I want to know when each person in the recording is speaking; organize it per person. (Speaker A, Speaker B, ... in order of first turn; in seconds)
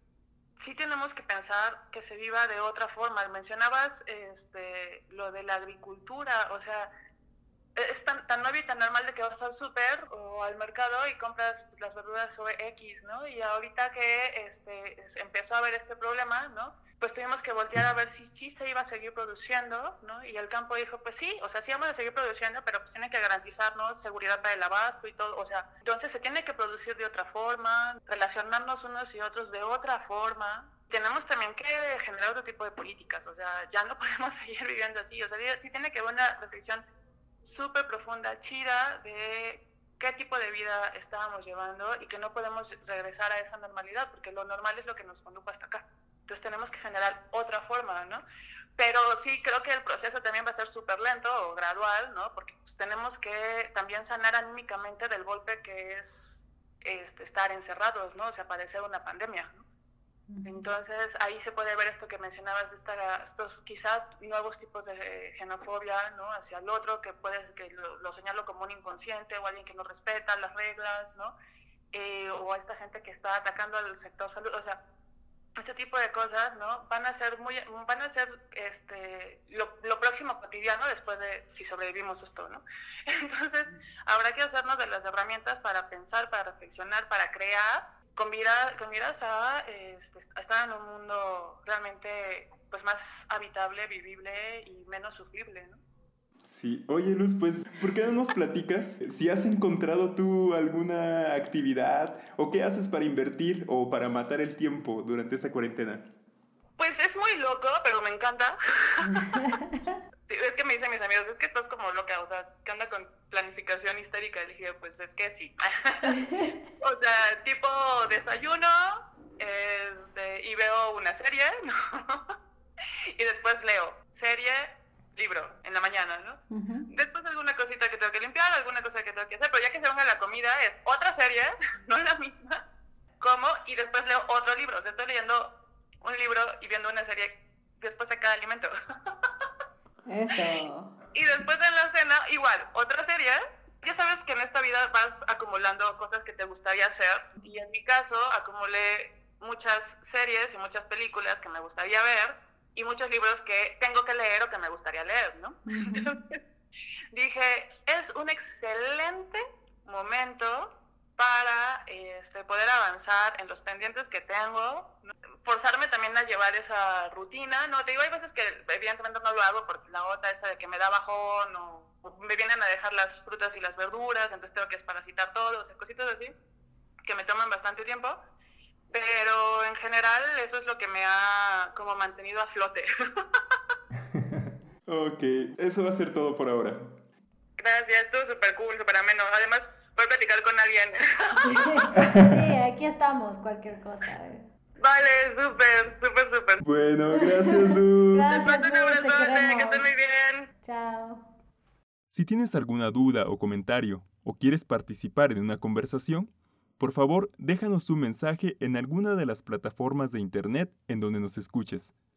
Speaker A: 0.6-6.9, 7.7-36.8, 37.4-48.2, 48.8-59.6, 60.5-71.3, 71.9-74.8, 75.6-95.8, 106.8-109.4, 110.3-116.2, 116.8-122.3, 123.2-132.6, 133.2-138.7, 141.1-156.4, 157.1-176.3, 177.1-178.2, 178.9-182.9, 187.6-191.8, 194.8-196.6, 198.3-200.5
Speaker B: 60.3-60.7, 109.0-110.0, 116.0-116.6, 126.5-126.9, 140.1-140.9, 155.7-156.1, 191.4-194.5, 198.1-199.9, 200.6-201.2
Speaker C: 96.5-106.1, 184.1-186.9, 191.9-192.3, 196.6-198.3, 202.1-211.9